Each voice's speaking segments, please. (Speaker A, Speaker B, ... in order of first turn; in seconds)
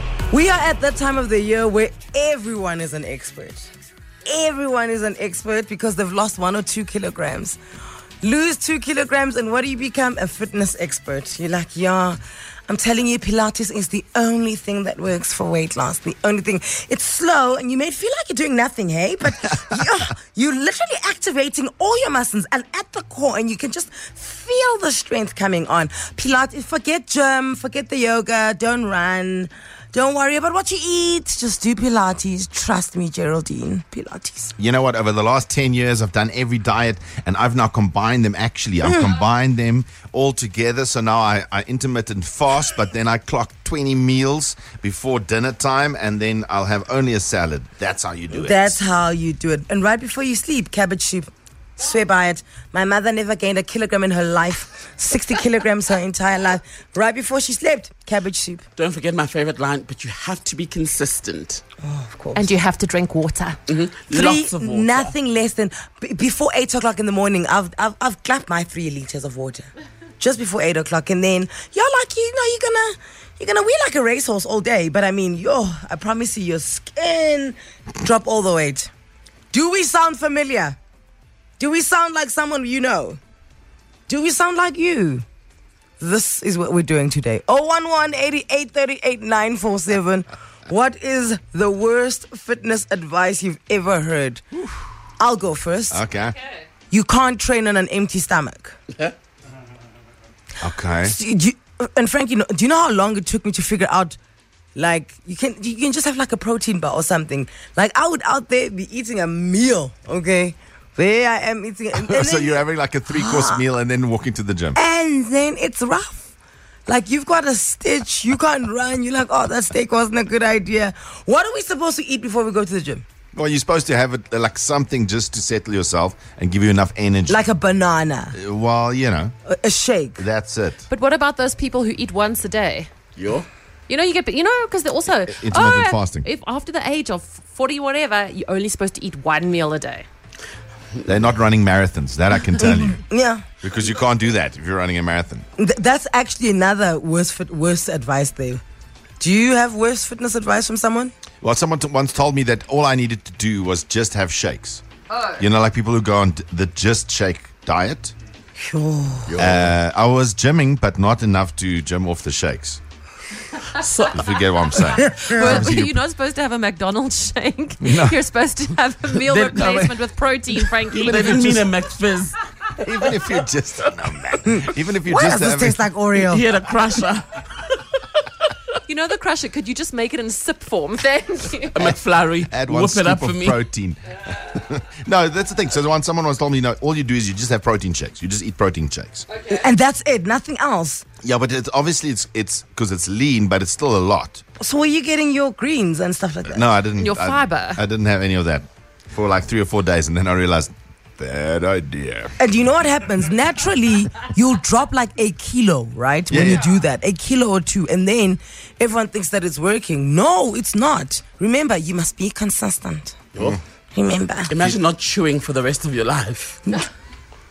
Speaker A: 0.3-3.7, 4.2-7.6, 8.2-34.5, 38.8-39.2, 48.4-58.6, 61.8-62.5, 64.1-69.7, 70.2-78.9, 79.5-80.8, 81.6-83.2, 84.1-85.2, 86.0-94.4, 95.2-96.0, 96.9-98.8, 101.0-104.2, 104.8-113.6, 114.8-116.3, 116.9-123.0, 127.3-128.3, 129.5-130.2, 142.6-143.4, 145.6-148.6, 149.2-151.1, 158.6-159.5, 165.0-165.7, 174.4-176.5, 189.5-191.1, 194.6-196.7, 202.4-213.2, 213.9-214.6
Speaker B: 34.6-48.8, 95.9-96.4, 100.6-101.2, 112.0-114.8, 123.3-127.4, 128.3-129.3, 130.2-130.8, 135.3-136.3, 141.1-143.0, 143.6-145.5, 151.4-154.8, 155.4-158.1, 159.4-162.8, 164.1-166.0, 167.8-168.2, 169.3-169.9, 171.1-171.6, 172.8-175.8, 182.5-189.3, 191.2-194.4, 196.5-202.3, 206.3-206.7
Speaker C: 58.8-61.6, 63.7-65.1, 133.2-133.5, 163.8-164.2, 169.4-169.8, 170.9-172.4, 176.2-177.8, 181.7-183.6, 214.5-216.6
Speaker D: 62.4-63.6, 130.9-132.9, 133.9-140.0, 155.1-155.4, 164.7-171.5, 178.9-181.8, 197.0-197.8